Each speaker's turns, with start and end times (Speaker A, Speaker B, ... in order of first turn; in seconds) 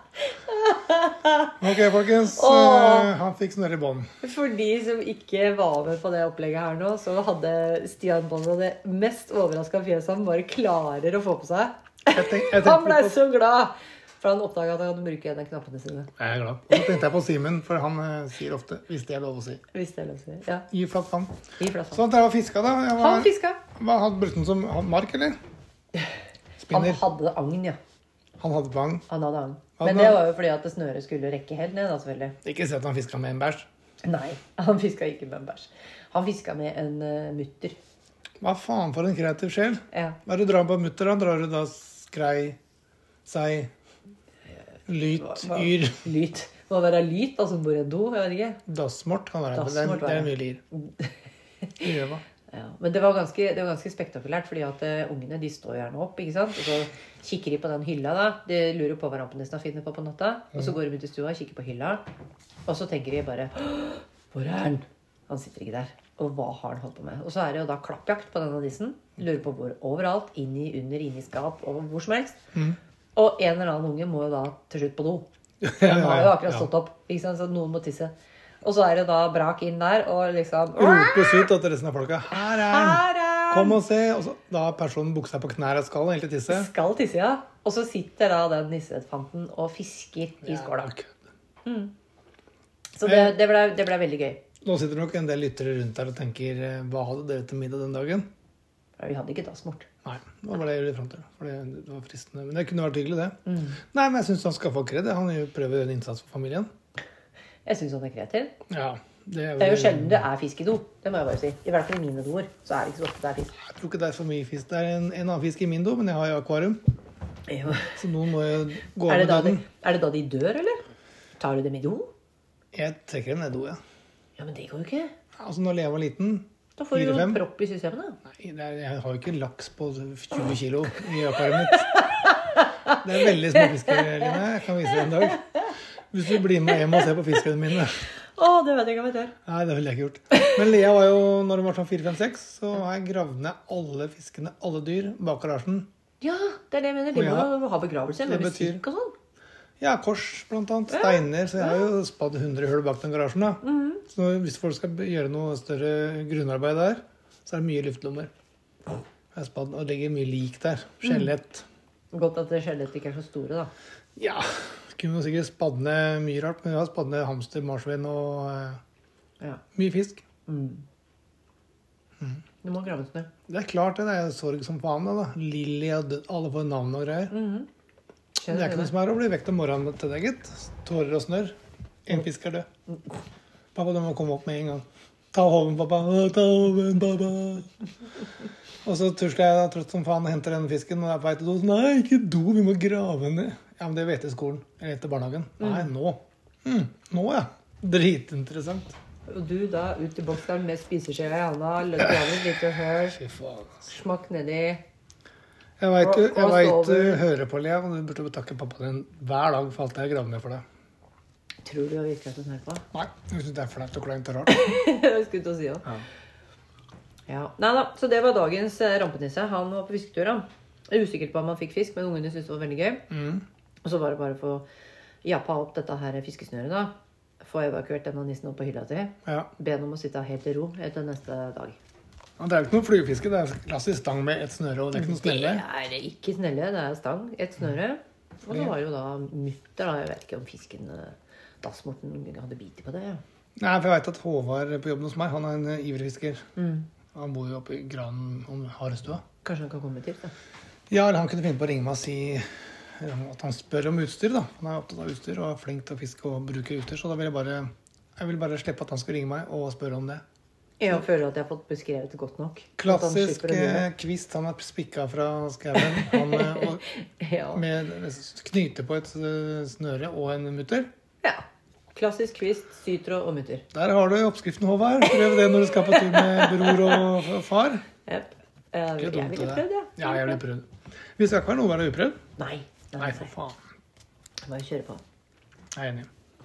Speaker A: 0.3-3.1, 4.2-16.1, 16.7-17.0, 19.7-20.7, 21.6-22.0, 23.0-23.6, 26.7-27.8, 29.1-32.4, 34.0-37.8, 39.9-40.2, 45.0-48.6, 49.5-51.9, 52.5-62.0, 62.7-72.4, 73.2-75.3, 75.8-81.5, 82.3-83.8, 86.5-91.0, 91.7-91.9, 93.0-94.4, 99.0-99.9, 103.5-103.8, 107.7-108.5, 109.6-113.6, 117.5-118.0, 119.1-120.8, 121.4-122.1, 124.4-125.1, 126.8-128.2, 131.7-133.0, 133.6-134.4, 136.7-137.1, 138.2-139.3, 146.2-149.2, 150.9-151.9, 153.6-154.0, 161.1-161.3, 162.1-163.7, 170.5-170.8, 172.6-173.3, 177.3-177.7, 178.4-178.9, 195.6-195.9, 199.3-203.2, 203.9-204.8, 206.0-207.3, 211.6-212.8, 214.5-215.9, 217.3-223.1, 223.8-224.7, 225.2-231.8, 234.9-243.2, 246.6-246.9, 249.4-250.3, 260.8-263.9, 265.8-267.6, 271.2-273.6, 275.0-277.2, 278.1-280.4, 282.4-283.3, 284.5-285.0
Speaker B: 1.6-4.1, 12.1-13.2, 16.2-19.6, 20.7-21.4, 21.9-25.4, 26.6-27.1, 28.4-29.1, 29.8-30.2, 32.4-33.7, 38.4-42.6, 43.3-43.7, 44.9-46.1, 48.7-50.6, 51.8-52.2, 75.6-76.7, 80.8-86.7, 90.4-91.1, 93.0-93.4, 94.6-98.3, 100.0-106.7, 108.7-110.3, 113.7-116.8, 117.9-119.6, 122.7-123.8, 125.4-127.4, 128.3-132.0, 132.9-138.1, 139.5-145.9, 147.1-147.5, 148.2-148.8, 149.8-158.3, 159.3-161.7, 164.2-168.8, 169.8-170.2, 173.5-177.4, 178.5-182.7, 183.8-187.7, 188.8-198.9, 203.1-203.9, 205.8-210.6, 212.9-214.7, 223.1-223.4, 232.4-235.7, 238.5-238.8, 243.6-246.4, 247.1-249.2, 250.9-260.2, 262.8-266.9, 267.5-270.9, 273.7-277.9, 279.0-282.2, 283.0-283.6, 285.8-286.1